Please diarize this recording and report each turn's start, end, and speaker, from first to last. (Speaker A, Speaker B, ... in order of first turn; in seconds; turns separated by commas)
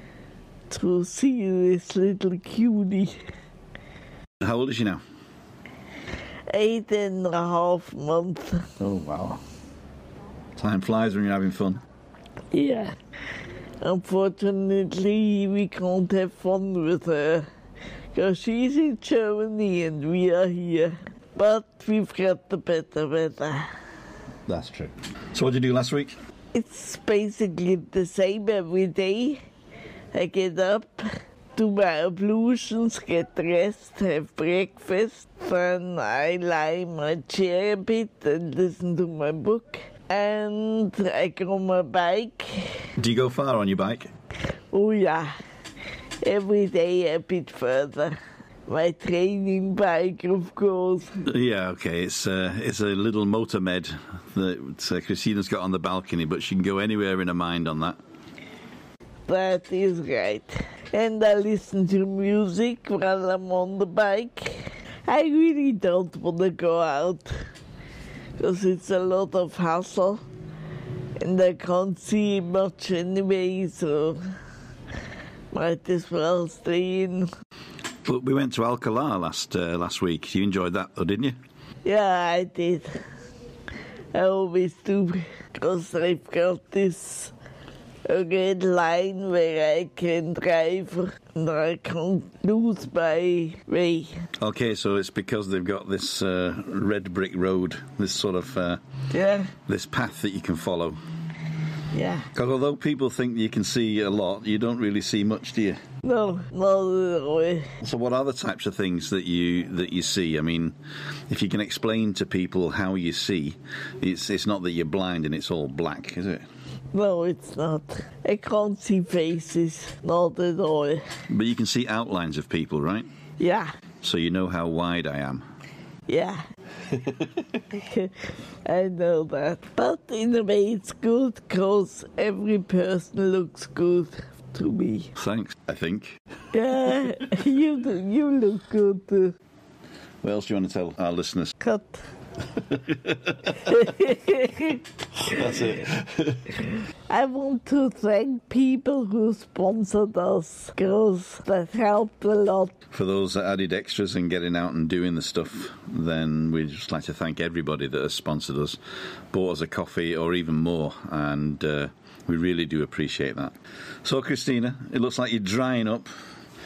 Speaker A: 0.7-3.2, Speaker B: 4.4-5.0, Speaker A: 6.5-8.6, Speaker B: 8.8-9.4, Speaker B: 10.6-11.8, Speaker A: 12.5-12.9, Speaker A: 13.8-17.5, Speaker A: 18.1-23.7, Speaker B: 24.5-26.1, Speaker A: 26.5-29.4, Speaker A: 30.1-42.9, Speaker B: 43.0-44.1, Speaker A: 44.7-45.3, Speaker A: 46.2-48.2, Speaker A: 48.7-51.1, Speaker B: 51.2-58.0, Speaker A: 59.3-67.3, Speaker A: 68.4-70.2, Speaker A: 71.2-74.2, Speaker A: 75.5-77.3, Speaker B: 78.0-81.3, Speaker A: 81.8-82.9, Speaker A: 84.1-87.3, Speaker A: 88.1-94.1, Speaker B: 94.4-98.8, Speaker A: 99.1-99.5, Speaker B: 99.7-101.0, Speaker A: 101.9-102.3, Speaker B: 102.3-105.8, Speaker A: 106.0-107.7, Speaker B: 107.8-110.8, Speaker B: 111.3-116.5, Speaker A: 116.9-121.0, Speaker B: 121.3-123.1, Speaker A: 123.4-123.7, Speaker B: 124.0-125.4, Speaker A: 126.1-126.4, Speaker A: 127.7-128.1, Speaker A: 128.7-135.1, Speaker B: 135.2-136.2, Speaker A: 136.5-139.3, Speaker B: 140.2-141.6, Speaker A: 141.6-142.0, Speaker B: 143.1-143.5, Speaker A: 143.9-144.7, Speaker B: 145.2-146.5, Speaker A: 147.1-152.7, Speaker B: 152.9-158.8, Speaker B: 159.3-166.1